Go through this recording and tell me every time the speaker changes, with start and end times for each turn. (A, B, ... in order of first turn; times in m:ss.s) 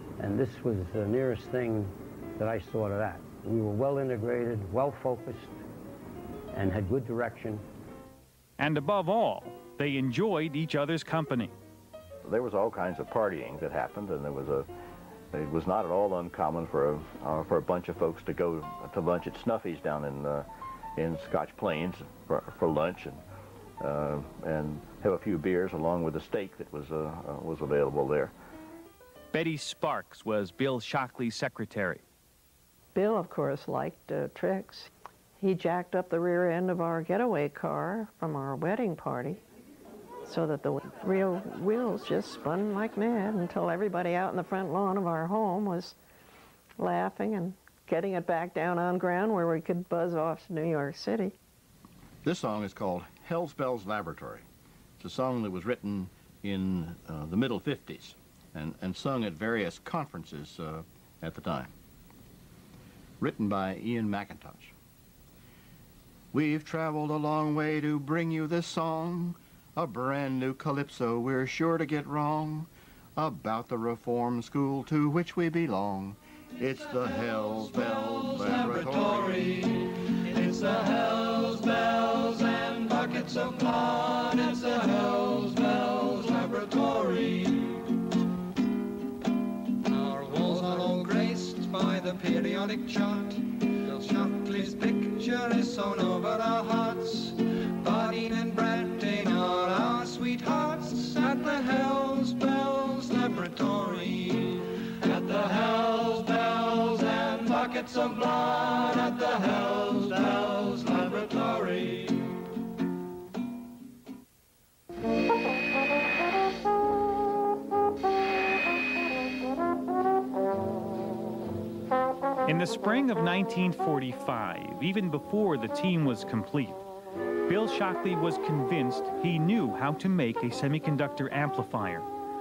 0:00.2-0:05.6 A
0:06.5-0:07.6 A
0:08.6-0:11.5 B
0:12.2-0:14.7 C
0:15.3-0:23.2 C
0:23.8-0:28.3 C
0:29.3-0:32.0 B
0:33.0-0:39.4 D
0:40.2-0:46.0 D
0:46.8-0:51.3 D
0:52.2-0:54.4 C
0:55.0-1:01.7 C
1:03.2-1:04.7 C
1:06.3-1:19.4 C
1:16.8-1:27.8 E
1:29.9-1:52.3 E
2:02.5-2:06.8 B
2:07.5-2:12.1 B